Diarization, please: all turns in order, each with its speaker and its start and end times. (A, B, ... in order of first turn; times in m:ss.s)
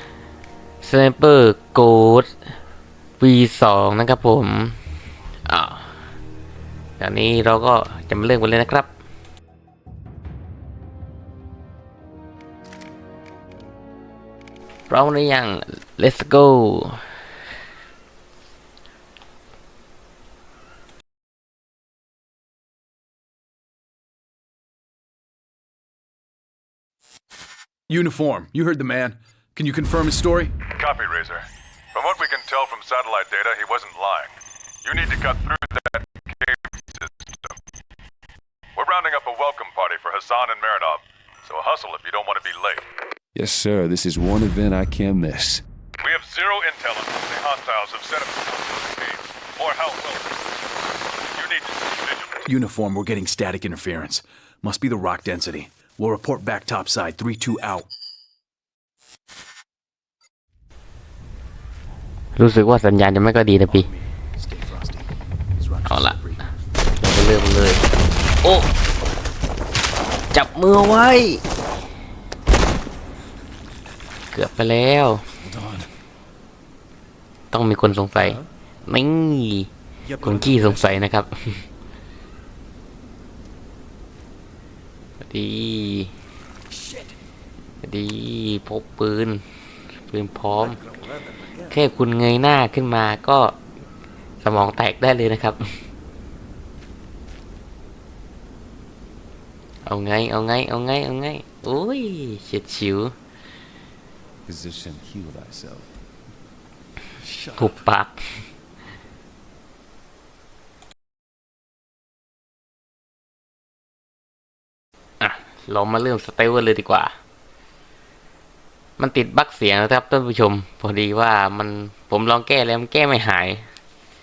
0:00.8-0:02.3 A
0:03.2-0:04.8 A
0:05.4-0:06.0 A
0:07.0-0:08.9 A
0:14.9-0:17.1 A
0:27.9-0:30.6 B
0:30.8-0:37.5 C
0:38.8-0:42.8 C
0:43.3-0:45.6 D
0:46.0-0:50.3 C
0:51.3-0:52.4 C
0:52.4-0:57.9 B
1:02.4-1:03.9 A
1:03.7-1:06.4 B
1:05.8-1:06.2 A
1:07.0-1:07.8 A
1:08.4-1:08.7 A
1:10.3-1:11.4 A
1:14.3-1:15.2 A
1:15.5-1:15.8 B
1:17.5-1:19.7 A
1:20.0-1:21.0 B
1:20.2-1:21.6 A
1:25.2-1:26.1 A
1:26.7-1:27.1 B
1:27.8-1:29.4 A
1:30.1-1:30.8 A
1:30.8-1:31.7 B
1:31.7-1:33.6 A
1:34.4-1:35.6 A
1:39.8-1:43.1 A
1:44.4-1:45.9 D
1:47.5-1:48.2 A
1:55.2-1:57.1 A
1:59.0-2:03.6 A